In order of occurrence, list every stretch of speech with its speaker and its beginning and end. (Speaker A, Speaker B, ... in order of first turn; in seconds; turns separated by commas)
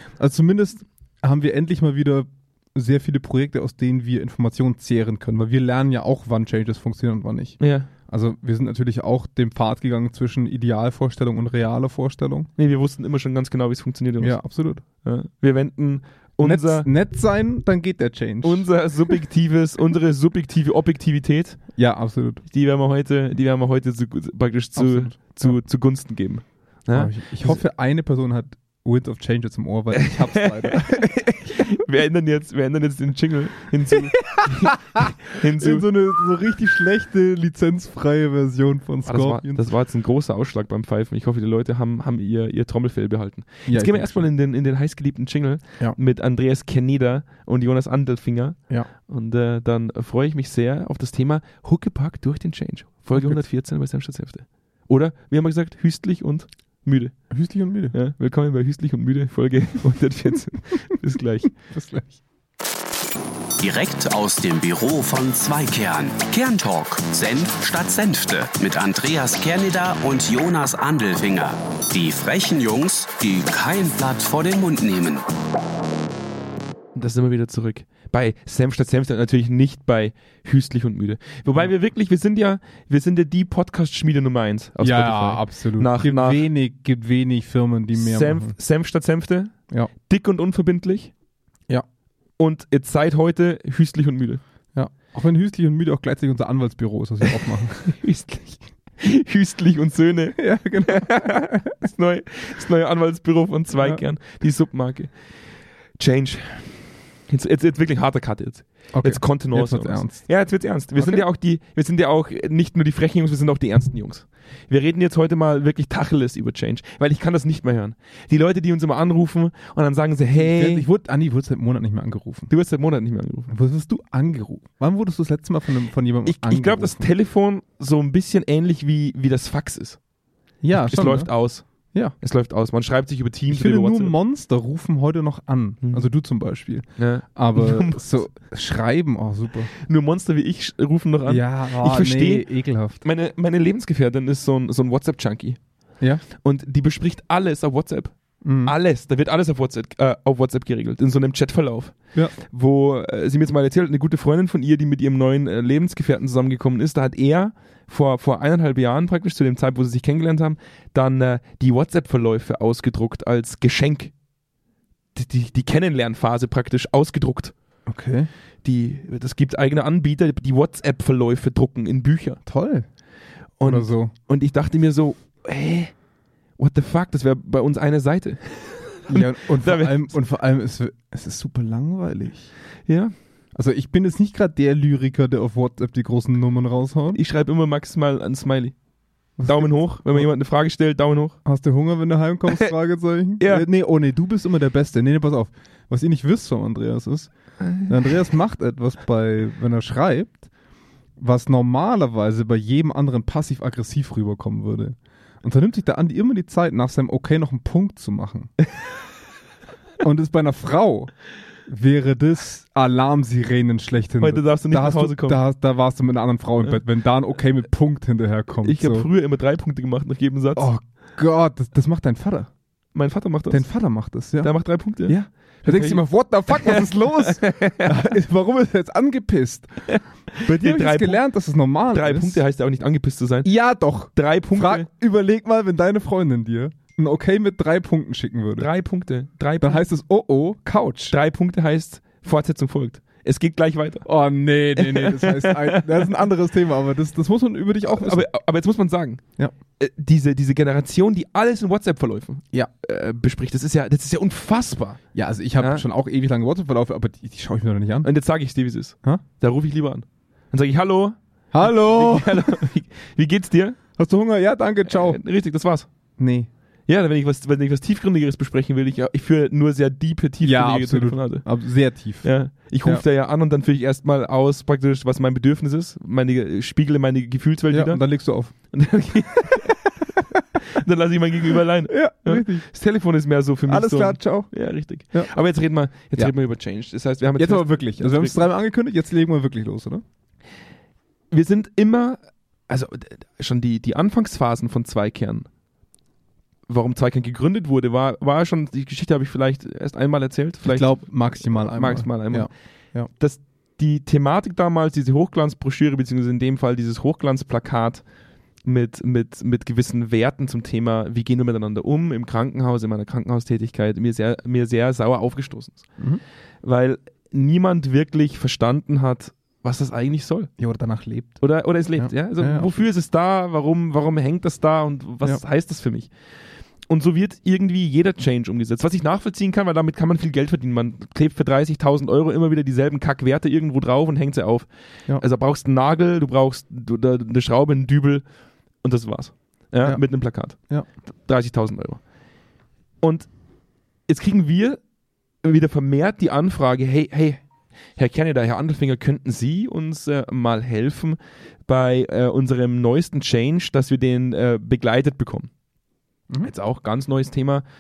Speaker A: 0.2-12.5, Speaker B: 7.6-7.9, Speaker B: 12.6-14.4, Speaker A: 14.2-14.8, Speaker B: 14.9-16.9, Speaker A: 16.4-18.7, Speaker B: 18.4-21.7, Speaker A: 21.8-22.4, Speaker B: 22.5-27.6, Speaker A: 24.8-25.6, Speaker A: 26.9-31.7, Speaker B: 30.0-35.9, Speaker A: 34.0-39.7, Speaker B: 39.1-57.3, Speaker A: 43.7-44.3, Speaker A: 53.2-53.4, Speaker A: 57.3-58.0, Speaker B: 57.9-61.5, Speaker A: 61.6-62.2, Speaker C: 63.6-75.2, Speaker B: 77.0-86.5, Speaker A: 84.8-88.6, Speaker B: 87.9-89.5, Speaker B: 90.1-91.1, Speaker B: 92.4-94.4, Speaker A: 94.8-98.0, Speaker B: 97.9-105.1, Speaker A: 100.4-101.7, Speaker A: 103.8-104.0, Speaker B: 106.0-120.9, Speaker A: 108.9-110.3, Speaker A: 111.0-111.2, Speaker A: 120.3-122.5, Speaker B: 122.5-123.5, Speaker A: 123.5-127.1, Speaker B: 126.2-130.0, Speaker A: 130.6-131.3, Speaker B: 130.7-131.7, Speaker B: 132.2-134.2, Speaker A: 133.5-139.7, Speaker B: 135.8-136.1, Speaker B: 137.0-138.0, Speaker B: 139.7-142.5, Speaker A: 141.3-143.0, Speaker B: 143.0-145.6, Speaker B: 146.4-164.1, Speaker A: 148.4-148.7, Speaker B: 165.2-167.5, Speaker A: 167.9-168.3, Speaker B: 168.6-172.4, Speaker A: 172.4-172.9, Speaker B: 173.6-175.9, Speaker A: 173.6-174.1, Speaker B: 176.6-180.2, Speaker A: 179.1-182.5, Speaker B: 182.9-183.1, Speaker A: 183.6-187.2, Speaker B: 187.1-188.8, Speaker A: 189.4-190.2, Speaker B: 189.4-191.4, Speaker A: 191.4-197.3, Speaker B: 193.4-193.7, Speaker B: 197.6-197.9, Speaker A: 197.9-200.5, Speaker A: 201.2-208.5, Speaker A: 210.0-211.1, Speaker A: 211.7-219.1, Speaker B: 214.2-215.4, Speaker B: 218.6-220.7, Speaker A: 220.6-222.5, Speaker B: 222.9-223.7, Speaker A: 223.5-224.5, Speaker B: 224.4-228.1, Speaker A: 225.1-229.9, Speaker B: 229.9-231.2, Speaker A: 230.4-232.4, Speaker B: 231.9-233.5, Speaker A: 233.4-238.7, Speaker B: 234.1-234.9, Speaker B: 238.6-239.8, Speaker A: 239.6-241.2, Speaker B: 241.1-244.1, Speaker A: 244.1-248.3, Speaker B: 244.8-246.2, Speaker B: 247.9-249.2, Speaker B: 249.8-255.0, Speaker A: 255.1-258.1, Speaker B: 255.6-255.8, Speaker B: 258.0-263.8, Speaker A: 261.5-262.7, Speaker A: 264.0-265.2, Speaker B: 264.9-265.9, Speaker A: 266.2-266.5, Speaker B: 266.9-271.5, Speaker A: 270.4-272.3, Speaker B: 272.2-278.0, Speaker A: 277.7-278.5, Speaker B: 278.7-288.4, Speaker A: 281.9-282.7, Speaker A: 283.7-284.5, Speaker A: 287.4-290.0, Speaker B: 291.3-295.5, Speaker B: 296.7-302.5, Speaker A: 300.6-303.1, Speaker B: 303.2-308.0, Speaker B: 308.6-315.9, Speaker B: 316.6-320.5, Speaker A: 320.6-321.4, Speaker B: 321.4-326.1, Speaker A: 322.0-322.7, Speaker B: 326.9-334.7, Speaker B: 335.2-338.2, Speaker B: 338.8-340.6, Speaker A: 340.6-340.9, Speaker B: 341.2-342.0, Speaker B: 343.0-343.3, Speaker B: 344.1-344.8, Speaker B: 345.4-347.4, Speaker B: 347.9-355.5, Speaker B: 356.4-357.6